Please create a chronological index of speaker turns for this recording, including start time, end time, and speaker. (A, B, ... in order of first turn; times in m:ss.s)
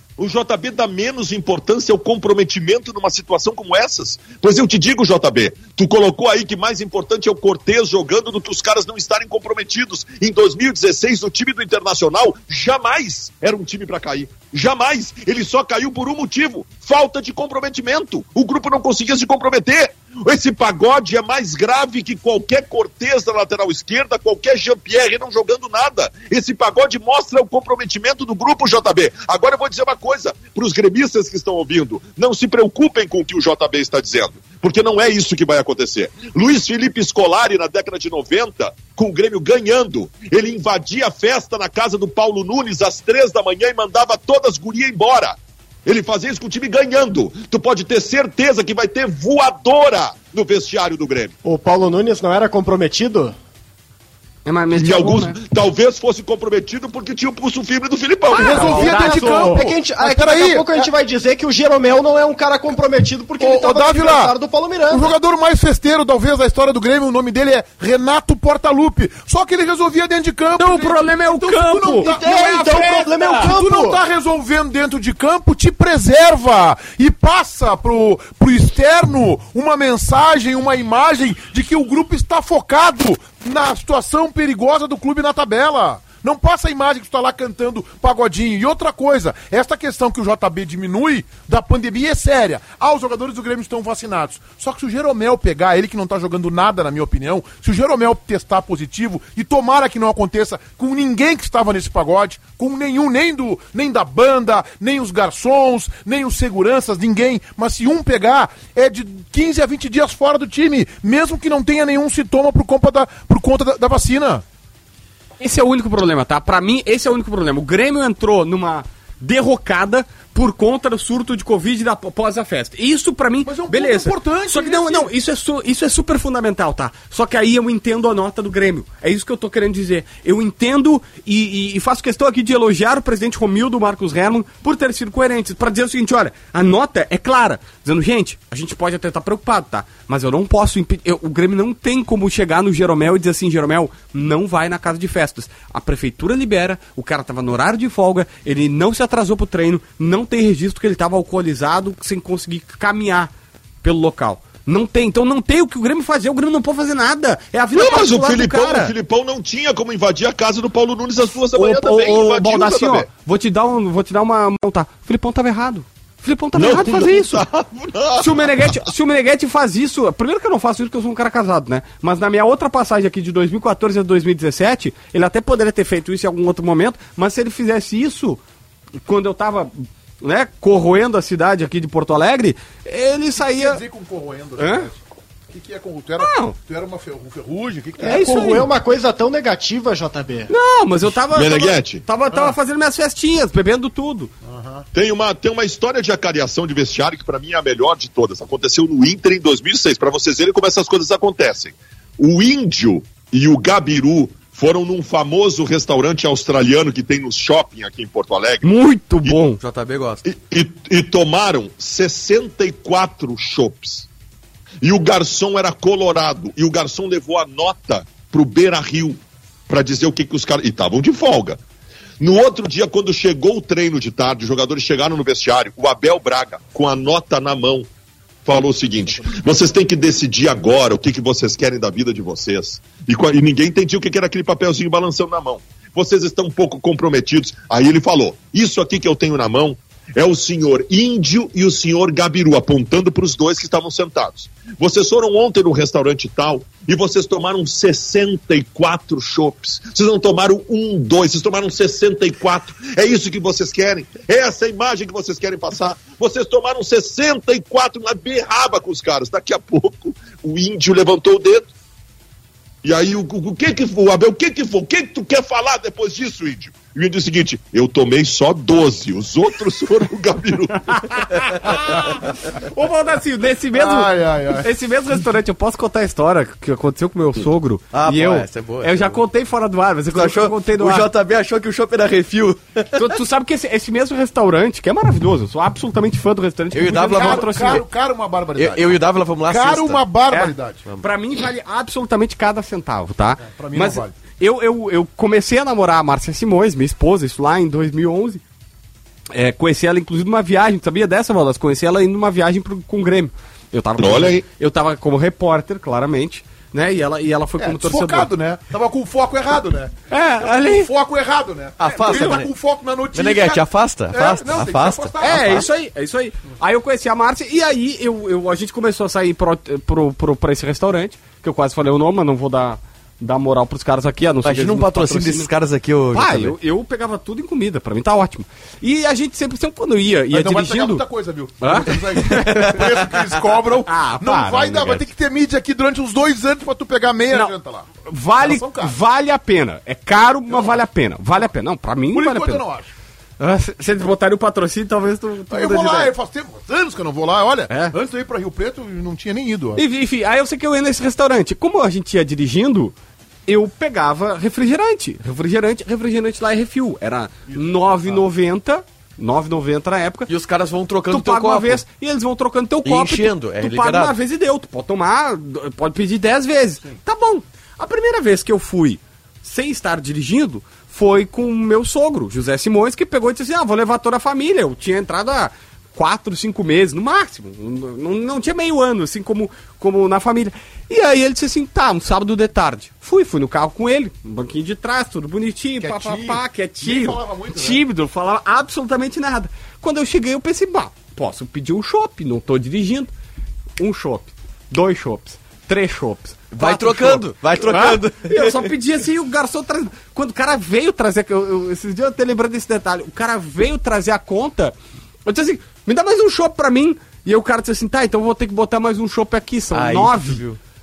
0:00.2-0:51.3 A
0:51.4-0:53.3 B
0:54.4-0:55.4 C
0:54.7-0:58.8 A
0:58.3-0:59.6 C
0:58.3-1:00.9 D
0:58.4-1:05.1 B
1:03.4-1:04.3 D
1:04.9-1:54.4 D
1:10.6-1:13.5 C
1:12.0-1:14.0 B
1:55.4-2:33.3 C
2:03.4-2:05.1 D
2:33.8-2:38.9 C
2:37.7-2:43.1 A
2:41.5-2:47.4 C
2:46.5-2:48.7 A
2:48.2-2:58.4 C
2:59.0-3:03.8 C
3:03.4-3:08.5 D
3:04.6-3:04.9 C
3:06.2-3:06.5 C
3:08.0-3:10.5 B
3:08.0-3:08.7 C
3:10.5-3:14.3 C
3:11.3-3:12.0 A
3:14.4-3:14.9 D
3:14.9-3:28.7 A
3:28.6-3:29.6 C
3:29.6-3:30.2 E
3:30.2-3:34.1 A
3:34.8-3:41.6 A
3:42.2-3:47.9 A
3:48.4-4:21.7 A
4:22.8-4:31.0 A
4:30.9-4:41.1 C
4:33.7-4:34.7 D
4:37.9-4:39.2 E
4:40.1-4:43.1 E
4:42.9-4:47.8 C
4:46.7-4:47.8 E
4:46.9-4:50.8 D
4:48.6-4:50.0 E
4:50.3-4:58.4 C
4:53.4-4:54.1 D
4:59.3-5:08.3 C
5:04.0-5:04.4 A
5:07.6-5:15.7 D
5:10.1-5:10.9 C
5:11.8-5:12.5 E
5:11.8-5:12.4 C
5:13.1-5:15.6 E
5:15.2-5:25.5 C
5:24.4-5:26.5 E
5:26.1-5:31.0 C
5:30.3-5:37.9 D
5:31.6-5:32.9 C
5:32.8-5:33.0 E
5:33.9-5:35.0 C
5:38.1-5:42.6 C
5:38.4-5:39.0 D
5:42.1-5:42.9 D
5:43.4-5:46.1 C
5:45.5-5:49.8 D
5:47.7-5:47.9 C
5:49.8-5:52.9 C
5:53.5-6:00.3 C
5:57.5-5:58.2 D
6:00.3-6:01.8 E
6:01.1-6:33.1 C
6:02.8-6:04.2 E
6:25.8-6:27.8 D
6:33.8-6:44.7 C
6:36.5-6:38.7 E
6:45.2-6:50.4 C
6:49.7-6:50.6 E